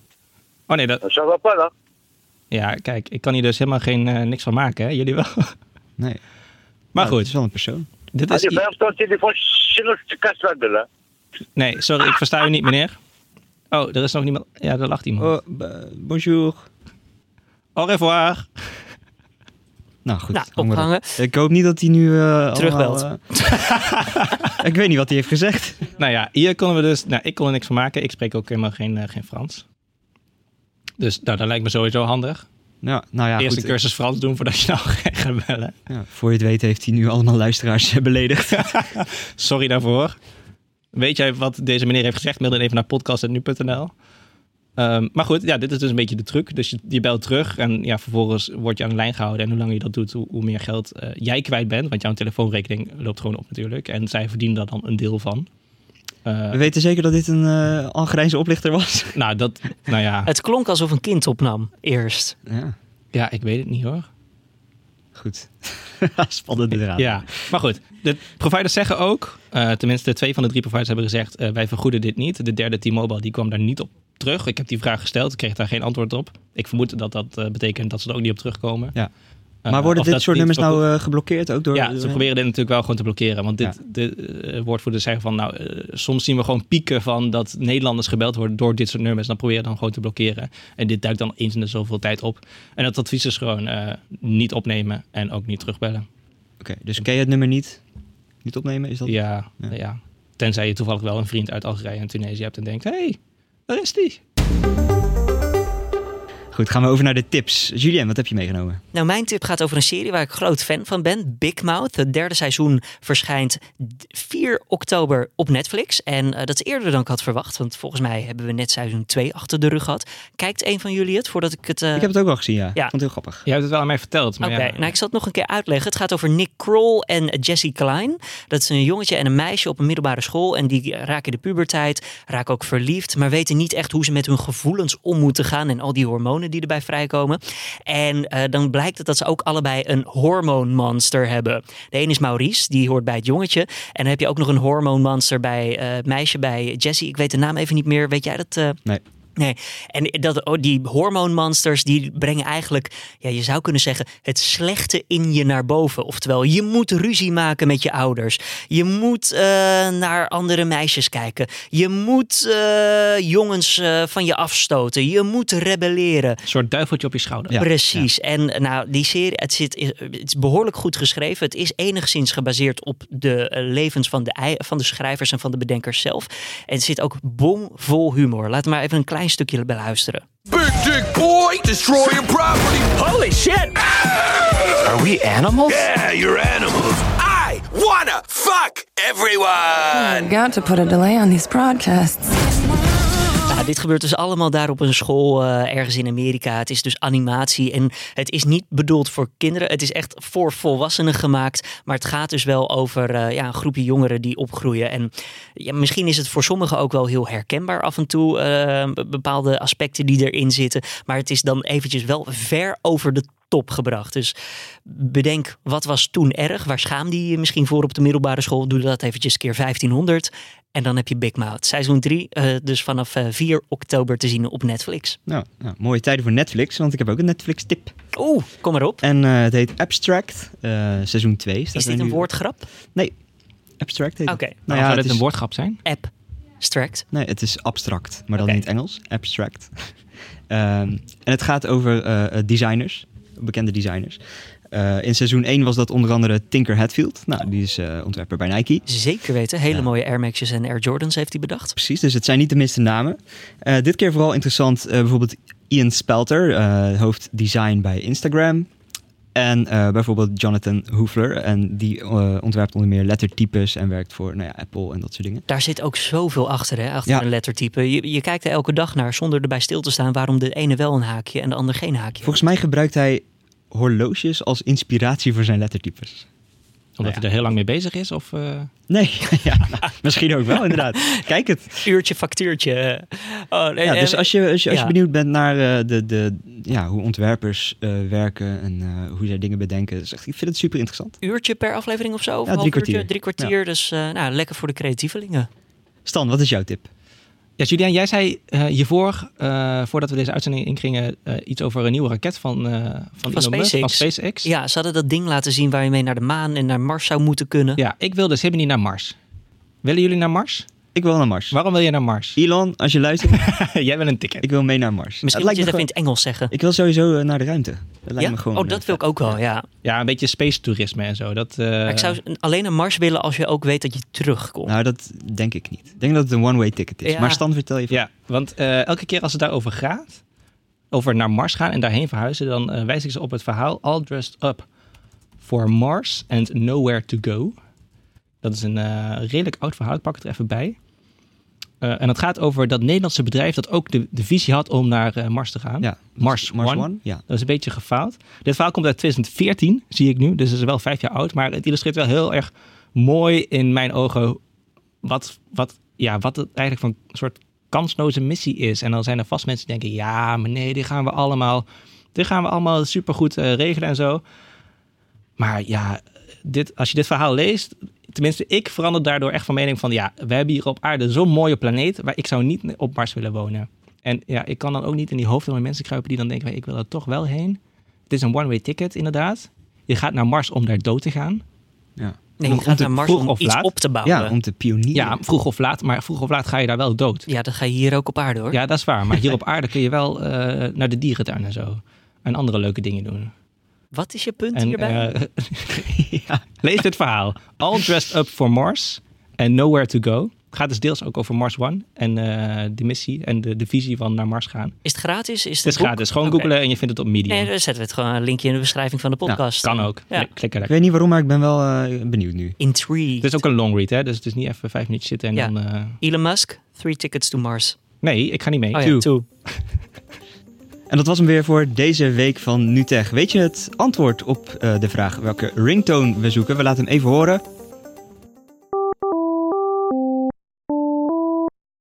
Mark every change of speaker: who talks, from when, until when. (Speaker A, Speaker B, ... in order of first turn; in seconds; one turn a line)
Speaker A: 0.7-1.0
Speaker B: 1.0-1.7
Speaker A: 2.5-5.5
Speaker A: 6.9-7.3
Speaker C: 7.0-7.9
Speaker A: 8.1-8.6
Speaker B: 8.3-10.8
Speaker A: 11.6-12.9
Speaker A: 13.7-15.3
Speaker C: 15.2-16.7
Speaker A: 17.8-18.5
Speaker C: 20.0-23.2
Speaker D: 20.3-21.2
Speaker D: 22.5-23.1
Speaker A: 23.5-24.5
Speaker C: 24.6-25.8
Speaker A: 26.0-29.6
Speaker A: 31.0-32.5
Speaker C: 32.8-33.7
Speaker A: 33.4-35.7
Speaker C: 35.9-38.8
Speaker A: 38.5-40.2
Speaker A: 40.9-43.9
Speaker A: 44.8-55.5
Speaker A: 56.2-56.7
Speaker C: 56.5-59.2
Speaker A: 59.1-60.3
Speaker D: 60.2-62.4
Speaker C: 62.5-62.7
Speaker A: 63.1-64.1
Speaker C: 65.1-67.3
Speaker A: 66.9-78.9
Speaker A: 79.6-80.8
Speaker C: 79.7-82.2
Speaker A: 81.7-96.0
Speaker C: 96.6-97.8
Speaker C: 98.4-99.7
Speaker A: 99.0-104.2
Speaker C: 106.5-108.8
Speaker D: 108.9-122.1
Speaker C: 121.9-123.4
Speaker A: 123.5-124.9
Speaker D: 124.4-148.8
Speaker D: 149.4-166.4
Speaker A: 166.4-167.6
Speaker C: 167.5-168.1
Speaker D: 167.6-180.2
Speaker E: 180.5-190.3
Speaker F: 189.9-192.4
Speaker D: 193.5-214.3
Speaker D: 214.8-225.2
Speaker C: 225.3-227.9
Speaker D: 228.1-229.0
Speaker C: 229.0-232.3
Speaker D: 231.7-232.7
Speaker C: 233.8-235.2
Speaker D: 234.3-234.6
Speaker A: 234.7-235.8
Speaker D: 235.8-237.0
Speaker C: 237.1-239.9
Speaker C: 240.5-248.8
Speaker D: 248.9-251.8
Speaker C: 251.8-258.7
Speaker C: 259.3-265.4
Speaker D: 265.5-272.4
Speaker C: 272.2-276.3
Speaker A: 277.0-278.7
Speaker C: 278.9-281.8
Speaker D: 281.8-284.9
Speaker C: 283.8-291.2
Speaker D: 291.2-295.5
Speaker C: 292.5-293.5
Speaker C: 296.0-296.9
Speaker A: 297.6-304.5
Speaker D: 303.3-307.8
Speaker A: 307.8-309.1
Speaker A: 309.8-310.7
Speaker C: 310.9-311.6
Speaker A: 311.5-312.4
Speaker C: 312.4-313.5
Speaker A: 313.3-314.5
Speaker C: 314.4-315.9
Speaker D: 315.2-316.5
Speaker C: 316.5-319.3
Speaker D: 318.2-319.6
Speaker A: 319.8-322.2
Speaker D: 321.9-324.7
Speaker C: 324.6-328.0
Speaker D: 327.0-327.4
Speaker A: 327.9-330.2
Speaker A: 330.9-334.6
Speaker A: 335.4-337.5
Speaker A: 338.4-340.8
Speaker A: 341.8-354.4
Speaker C: 345.8-347.2
Speaker A: 355.0-364.2
Speaker A: 365.4-381.4
Speaker C: 382.0-382.9
Speaker D: 382.4-384.3
Speaker A: 382.5-383.7
Speaker C: 384.0-385.2
Speaker A: 384.9-387.3
Speaker D: 387.3-388.6
Speaker A: 388.5-393.3
Speaker D: 393.9-395.1
Speaker A: 394.5-395.9
Speaker C: 395.7-396.4
Speaker A: 396.6-404.8
Speaker D: 404.8-406.5
Speaker A: 405.6-407.5
Speaker D: 407.3-410.3
Speaker A: 409.6-410.7
Speaker C: 410.6-412.6
Speaker D: 412.6-413.4
Speaker A: 413.2-416.0
Speaker D: 415.4-417.8
Speaker A: 418.0-419.0
Speaker D: 418.7-419.2
Speaker C: 420.9-427.4